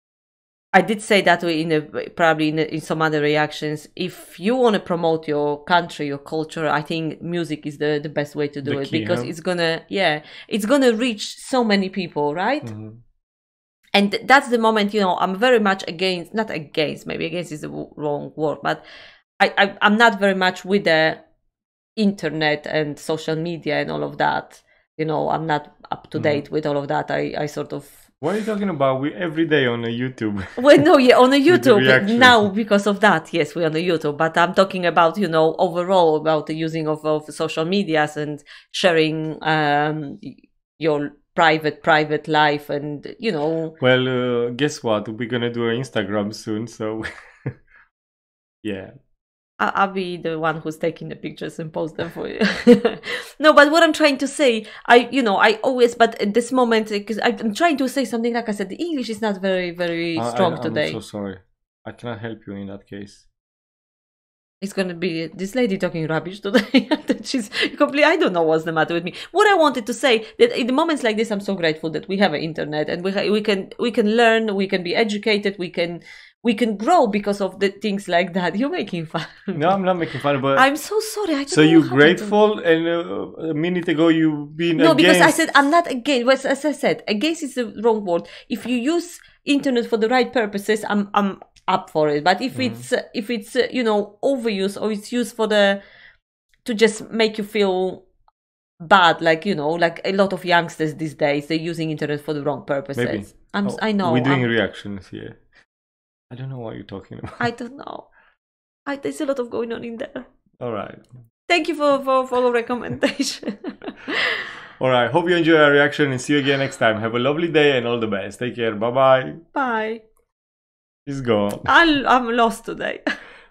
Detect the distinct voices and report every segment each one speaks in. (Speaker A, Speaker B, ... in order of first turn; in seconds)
Speaker A: 0.7-12.7, 13.9-18.8, 19.4-21.2, 21.9-27.9, 30.6-43.8, 49.6-61.0, 64.6-79.8, 80.5-82.3, 84.8-95.8, 96.6-98.0, 98.8-104.5, 107.4-108.1, 108.8-110.2, 111.5-114.5, 119.5-120.0, 121.6-123.0
Speaker B: 8.6-9.3, 12.6-13.0, 26.1-26.4, 28.2-30.9, 31.5-32.5, 43.8-47.6, 48.6-48.9, 60.1-63.2, 79.5-80.7, 81.5-85.6, 92.5-92.9, 102.9-105.4, 106.3-107.5, 110.6-111.0, 114.8-119.4, 121.0-121.7